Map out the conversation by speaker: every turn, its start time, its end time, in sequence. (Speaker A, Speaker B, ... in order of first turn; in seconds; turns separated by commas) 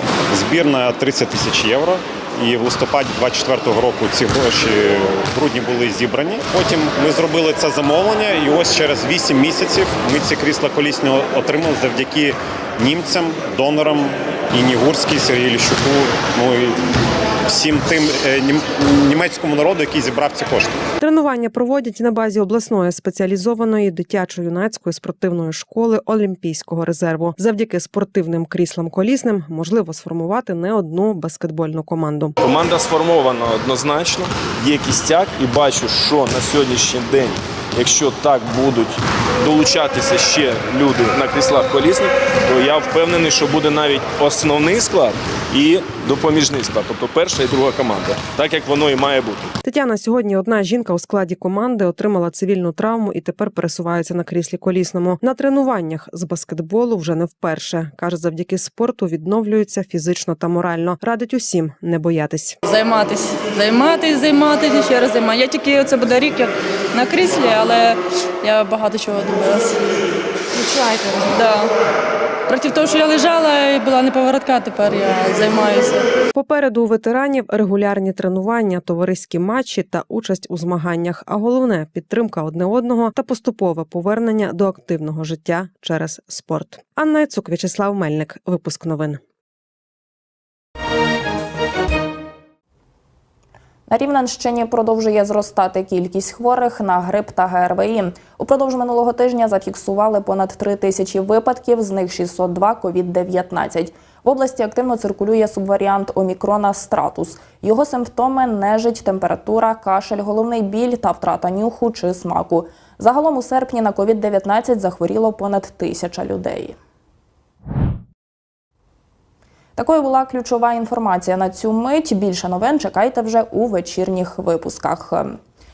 Speaker A: 0.3-16.8, Speaker A: 17.5-20.8, Speaker B: 21.0-32.3, Speaker C: 32.4-49.5, Speaker B: 49.6-62.6, Speaker D: 62.6-69.8, Speaker D: 70.5-71.7, Speaker D: 72.5-76.1, Speaker B: 76.3-89.2, Speaker E: 93.9-116.8, Speaker E: 119.8-125.4